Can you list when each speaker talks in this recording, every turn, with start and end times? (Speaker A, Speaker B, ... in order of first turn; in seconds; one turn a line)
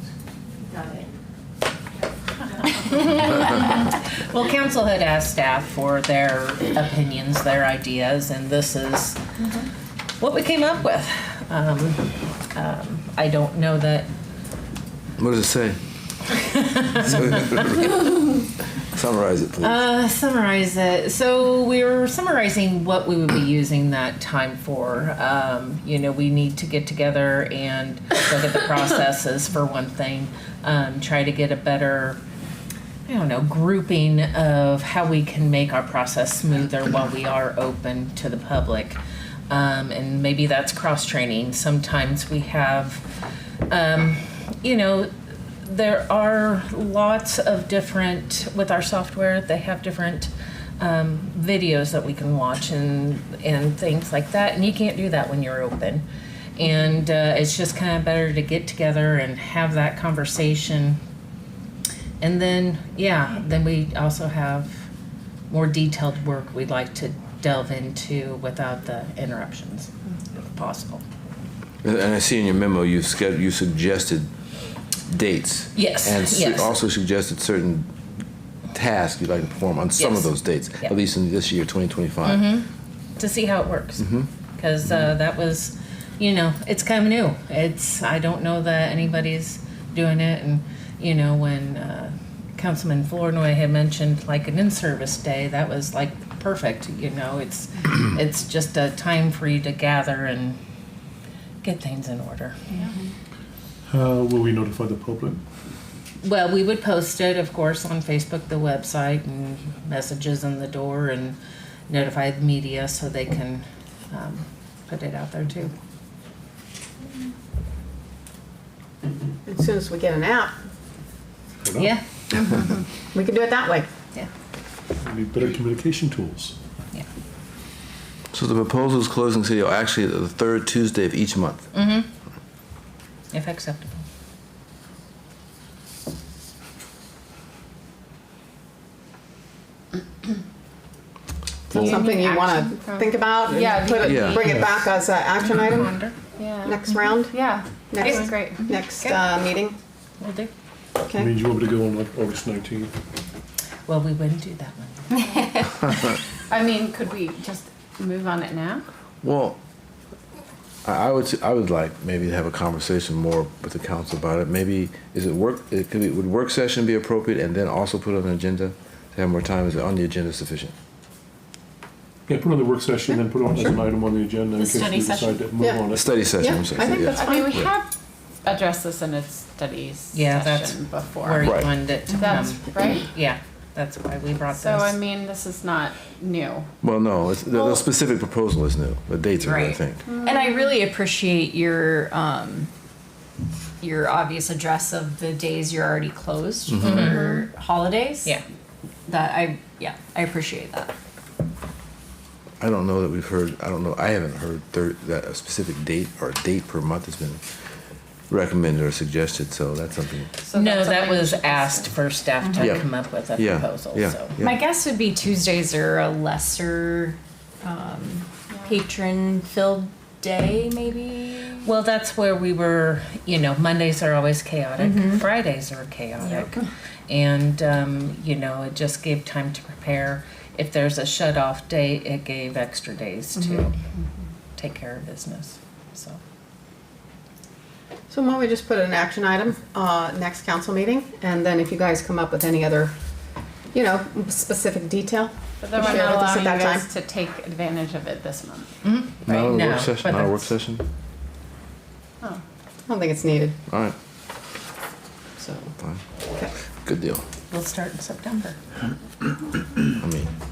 Speaker A: 2.7-9.2
Speaker A: 10.2-14.1
Speaker B: 15.2-15.8
Speaker A: 16.3-18.4
Speaker B: 17.0-18.0
Speaker B: 18.9-19.8
Speaker A: 19.6-32.2
Speaker A: 33.1-39.0
Speaker A: 39.5-43.0
Speaker A: 43.7-45.1
Speaker A: 45.6-56.0
Speaker A: 56.6-61.0
Speaker A: 62.2-64.8
Speaker A: 65.5-71.0
Speaker B: 71.8-74.3
Speaker B: 75.1-77.9
Speaker A: 75.8-76.8
Speaker B: 78.8-82.5
Speaker A: 80.0-81.0
Speaker A: 82.2-100.6
Speaker A: 101.6-102.6
Speaker C: 102.8-103.1
Speaker D: 103.9-105.4
Speaker A: 106.2-111.4
Speaker A: 111.9-115.7
Speaker E: 119.5-120.5
Speaker D: 121.6-122.0
Speaker A: 121.8-122.7
Speaker E: 123.1-123.9
Speaker D: 125.0-126.5
Speaker B: 128.3-131.7
Speaker A: 131.7-132.1
Speaker A: 133.3-134.0
Speaker E: 141.7-145.9
Speaker F: 141.7-144.5
Speaker B: 144.0-144.5
Speaker D: 144.4-144.8
Speaker A: 145.5-146.2
Speaker F: 146.4-148.8
Speaker E: 146.6-147.4
Speaker E: 147.9-149.8
Speaker A: 148.0-149.2
Speaker A: 150.2-150.5
Speaker E: 151.1-151.3
Speaker D: 151.1-152.9
Speaker A: 153.9-155.1
Speaker F: 155.2-156.0
Speaker F: 156.5-158.8
Speaker B: 159.2-159.6
Speaker B: 160.8-170.7
Speaker D: 172.3-176.3
Speaker C: 174.6-175.5
Speaker E: 175.6-175.8
Speaker B: 175.9-177.7
Speaker E: 176.4-177.2
Speaker F: 177.1-177.9
Speaker C: 177.2-177.5
Speaker F: 178.4-183.1
Speaker A: 180.1-185.0
Speaker B: 181.4-181.7
Speaker F: 184.6-186.7
Speaker B: 186.8-190.1
Speaker C: 189.4-192.7
Speaker F: 190.1-190.8
Speaker C: 193.8-198.4
Speaker B: 196.7-197.1
Speaker F: 196.9-197.4
Speaker C: 199.1-200.9
Speaker B: 202.6-207.4
Speaker B: 208.3-210.3
Speaker F: 210.5-211.8
Speaker A: 210.5-214.4
Speaker B: 212.6-214.6
Speaker C: 214.4-221.7
Speaker A: 221.6-233.7
Speaker C: 224.8-225.2
Speaker C: 226.3-226.6
Speaker C: 233.4-233.7
Speaker A: 234.6-236.2
Speaker E: 238.1-242.9
Speaker E: 243.7-246.9
Speaker F: 245.6-248.7
Speaker A: 248.8-250.5
Speaker B: 249.2-250.8
Speaker E: 252.9-253.6
Speaker B: 253.7-254.0
Speaker E: 255.4-255.7
Speaker B: 256.9-257.2
Speaker A: 257.5-258.6
Speaker B: 260.0-260.3